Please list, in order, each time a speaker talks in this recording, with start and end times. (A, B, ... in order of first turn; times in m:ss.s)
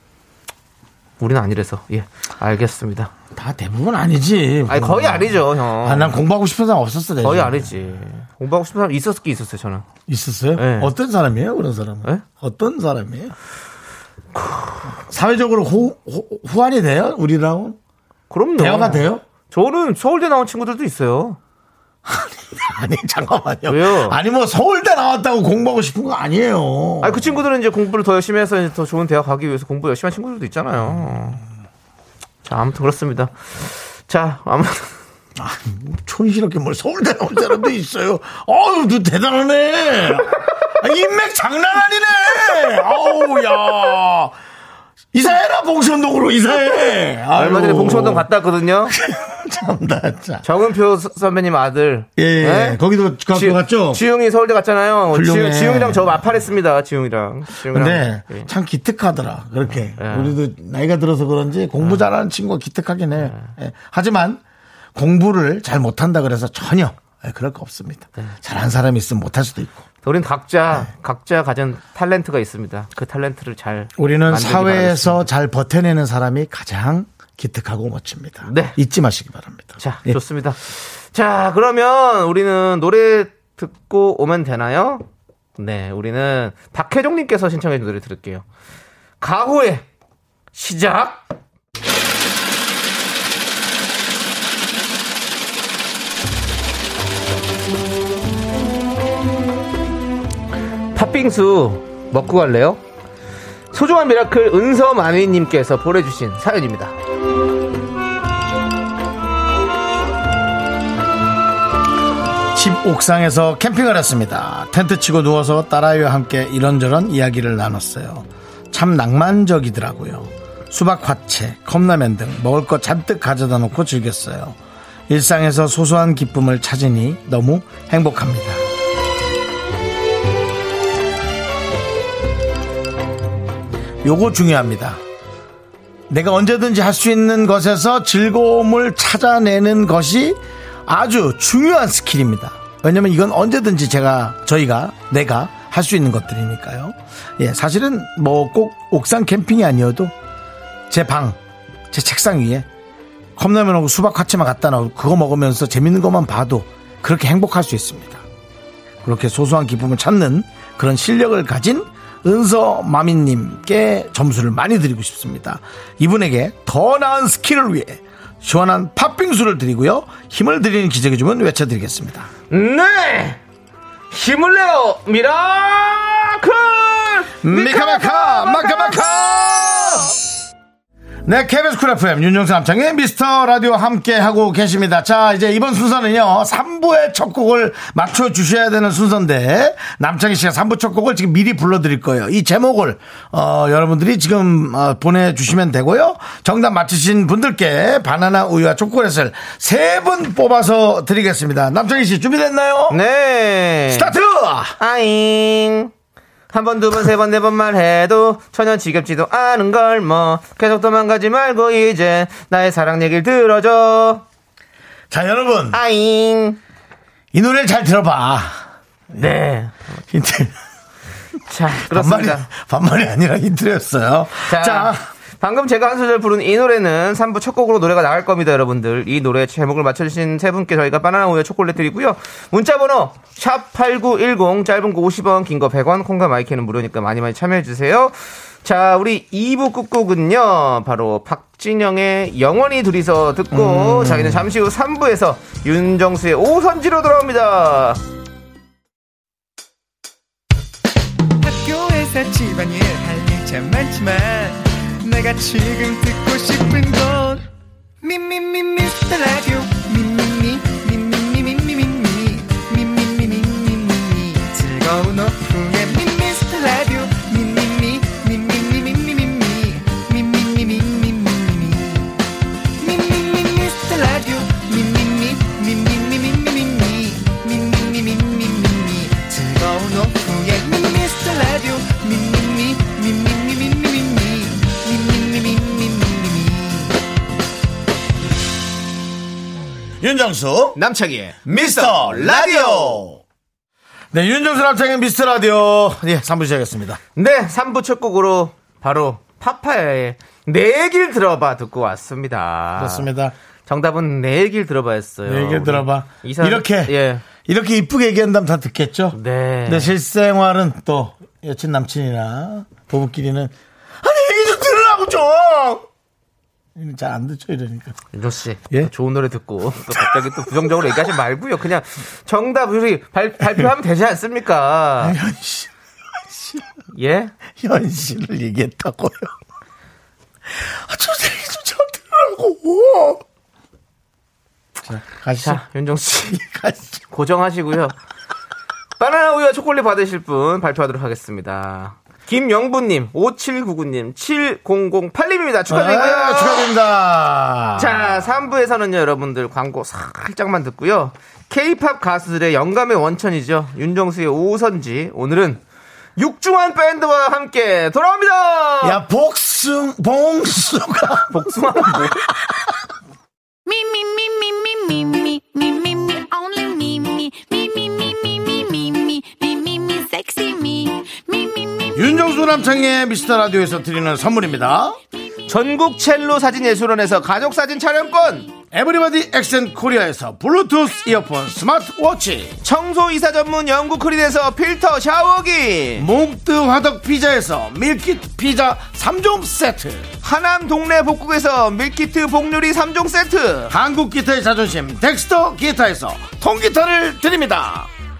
0:01.2-0:03.1 A
0:03.3-0:07.8 B
0:04.7-0:06.2 A
0:07.2-0:09.9 A
0:10.1-0:13.3 B
0:10.6-0:10.9 A
0:14.4-0:14.8 A
0:15.0-0:17.8 B
0:18.3-0:21.4 A
0:18.6-0:19.2 B
0:22.1-0:27.4 B
0:23.7-0:24.2 A
0:27.0-0:31.4 A
0:32.4-0:35.0 A
0:35.4-0:44.4 B
0:45.1-0:48.3 B
0:47.3-0:49.0 A
0:48.9-0:50.4 B
0:50.4-0:52.8 A
0:52.2-0:54.0 B
0:53.3-0:58.5 A
0:55.1-0:56.2 B
0:57.7-1:04.4 B
1:00.0-1:00.4 A
1:03.2-1:03.5 A
1:05.0-1:09.8 B
1:10.0-1:15.3 A
1:14.0-1:20.2 B
1:18.5-1:18.8 A
1:19.8-1:25.0 A
1:25.6-1:28.4 A
1:29.2-1:29.8 A
1:30.5-1:31.2 A
1:40.9-1:42.8 A
1:43.7-1:47.0 A
1:52.5-2:04.6 B
2:05.1-2:08.6 B
2:14.0-2:15.0 B
2:16.1-2:30.1 B
2:30.9-2:31.4 B
2:31.9-2:32.7 B
2:33.4-2:38.2 B
2:39.0-2:52.3 B
2:52.5-2:53.4 A
2:54.1-3:00.1 A
2:57.4-3:00.1 B
3:01.2-3:23.0 B
3:22.9-3:24.1 A
3:23.9-3:24.8 B
3:24.8-3:25.9 A
3:26.5-3:34.2 A
3:35.1-3:35.8 B
3:35.7-3:36.6 A
3:37.3-3:38.6 B
3:39.2-3:39.9 A
3:40.1-3:40.6 B
3:41.5-3:42.5 A
3:41.8-3:45.0 B
3:44.5-4:08.0 A
4:03.5-4:04.5 B
4:11.4-4:17.5 C
4:18.0-4:32.2 C
4:32.8-4:47.0 C
4:50.0-4:50.8 B
4:50.8-4:53.1 A
4:51.5-4:53.2 B
4:54.1-4:57.0 B
4:57.2-5:03.1 A
5:02.8-5:03.3 B
5:03.7-5:07.2 A
5:05.3-5:15.8 B
5:09.1-5:10.0 A
5:16.8-5:18.0 B
5:18.1-5:25.2 A
5:19.9-5:21.0 B
5:25.0-5:25.7 B
5:26.3-5:26.6 B
5:27.0-5:27.3 A
5:27.5-5:29.4 B
5:30.5-5:33.2 B
5:34.8-5:35.6 B
5:35.4-5:36.3 A
5:36.2-5:37.0 B
5:37.1-5:38.0 A
5:39.0-5:46.7 A
5:45.7-5:48.2 B
5:47.8-5:55.6 A
5:56.2-5:59.0 A
5:58.8-6:02.1 B
6:01.3-6:02.3 A
6:03.7-6:12.3 D
6:12.0-6:15.0 B
6:15.5-6:18.5 A
6:18.7-6:22.6 B
6:22.6-6:26.1 A
6:26.0-6:30.1 B
6:30.2-6:33.7 A
6:33.7-6:37.9 B